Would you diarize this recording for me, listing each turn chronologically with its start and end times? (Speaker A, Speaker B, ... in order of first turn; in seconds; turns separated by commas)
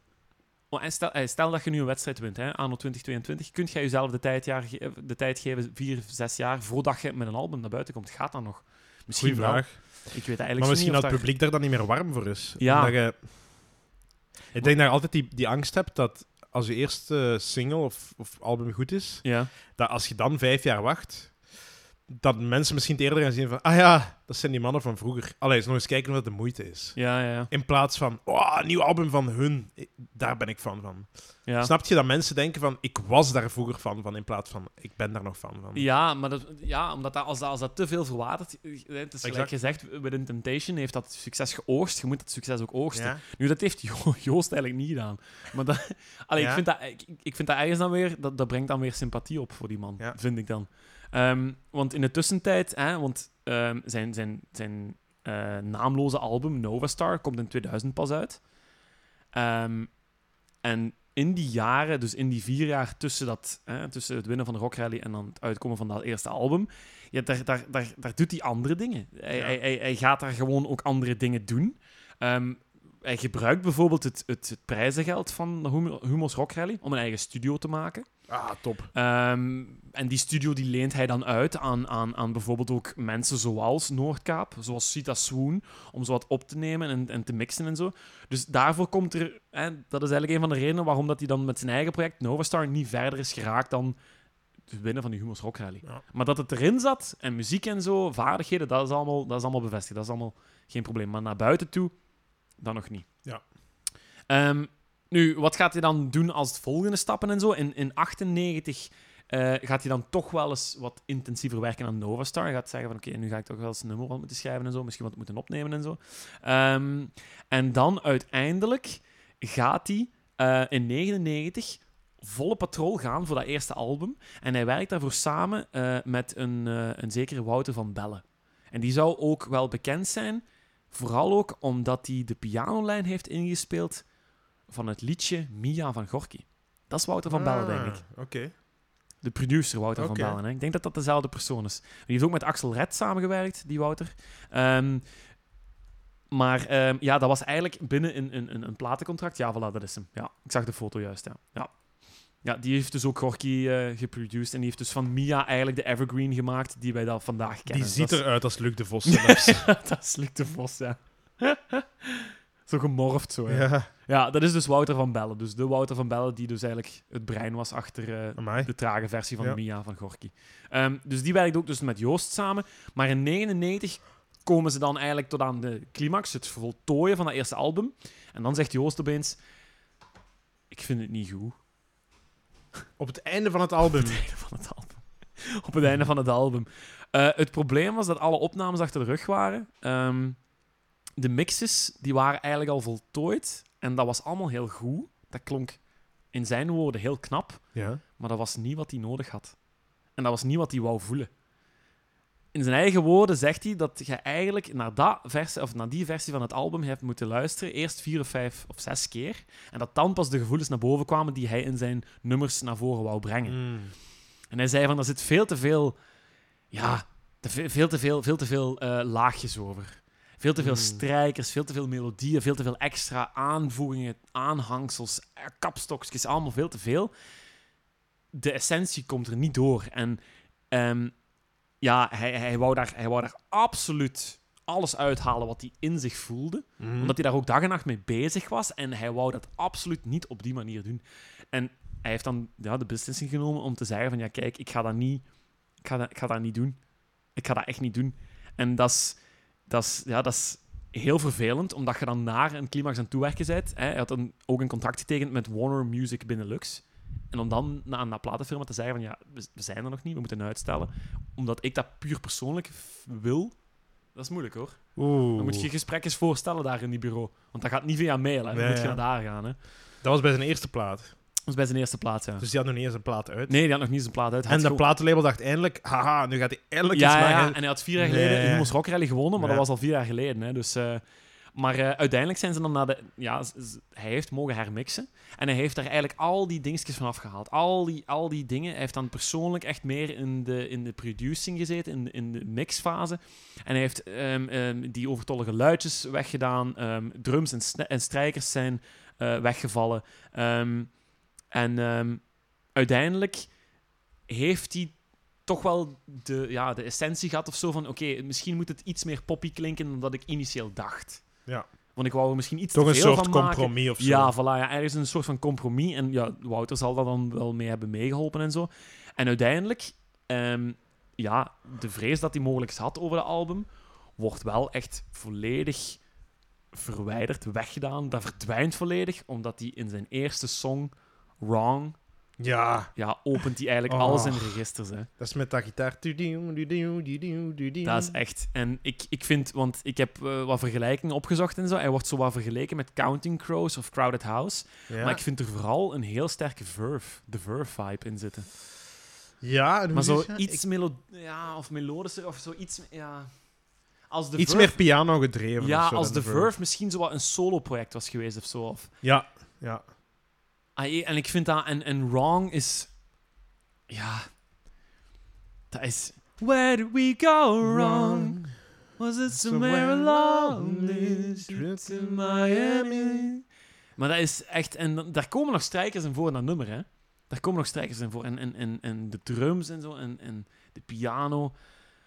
Speaker A: 0.7-11.3, Speaker B: 9.1-9.8, Speaker B: 10.6-13.3, Speaker A: 12.6-13.0, Speaker B: 14.5-21.3, Speaker A: 19.2-19.5, Speaker B: 22.1-26.9, Speaker A: 26.9-27.5, Speaker B: 27.5-31.1, Speaker A: 31.4-31.7, Speaker B: 31.6-35.9, Speaker A: 35.7-58.4, Speaker B: 39.2-39.5, Speaker B: 42.9-43.2, Speaker B: 46.4-46.6, Speaker A: 59.3-59.9, Speaker A: 60.6-78.0, Speaker B: 78.3-78.9, Speaker A: 78.9-94.0, Speaker A: 94.7-101.9, Speaker A: 102.6-103.1, Speaker A: 104.3-134.0, Speaker A: 134.7-138.0, Speaker B: 137.3-138.5, Speaker A: 139.2-145.0, Speaker B: 140.0-140.4, Speaker A: 146.3-151.7, Speaker A: 152.4-158.2, Speaker B: 157.7-159.7, Speaker A: 159.1-179.4, Speaker B: 163.5-163.9, Speaker B: 168.4-168.7, Speaker A: 180.7-181.6, Speaker B: 183.0-184.2, Speaker A: 183.9-190.4, Speaker A: 191.2-195.8, Speaker A: 196.3-197.6, Speaker B: 197.7-198.0, Speaker A: 198.2-199.5, Speaker A: 200.2-201.3, Speaker A: 202.5-213.6, Speaker B: 213.4-213.9, Speaker A: 214.5-216.0, Speaker A: 216.7-227.1, Speaker B: 220.6-221.0, Speaker A: 228.3-230.2, Speaker A: 230.7-231.1, Speaker A: 231.8-245.2, Speaker B: 236.8-237.2, Speaker A: 245.8-246.8, Speaker A: 247.3-263.5, Speaker A: 264.1-264.8, Speaker B: 264.9-265.7, Speaker A: 265.4-269.6, Speaker B: 268.5-269.0, Speaker B: 270.0-271.1, Speaker A: 271.5-272.4, Speaker B: 272.4-273.6, Speaker A: 273.5-274.8, Speaker B: 274.5-278.7, Speaker A: 276.9-281.0, Speaker B: 279.4-279.6, Speaker A: 281.5-300.9, Speaker A: 301.5-302.2, Speaker A: 302.7-303.4, Speaker A: 304.3-304.9, Speaker A: 305.4-311.2, Speaker A: 311.9-326.0, Speaker B: 312.7-314.3, Speaker A: 326.7-332.0, Speaker B: 332.4-332.9, Speaker A: 332.9-335.1, Speaker B: 333.9-334.6, Speaker B: 335.2-338.2, Speaker A: 337.8-348.5, Speaker B: 344.9-345.2, Speaker B: 349.4-350.6, Speaker A: 349.9-353.3, Speaker A: 354.1-354.8, Speaker B: 354.4-356.5, Speaker A: 355.6-358.9, Speaker B: 359.0-359.8, Speaker A: 360.8-362.9, Speaker A: 363.9-364.2, Speaker A: 365.7-368.4, Speaker B: 367.6-368.5, Speaker A: 369.0-373.4, Speaker B: 369.3-373.3, Speaker A: 374.0-381.5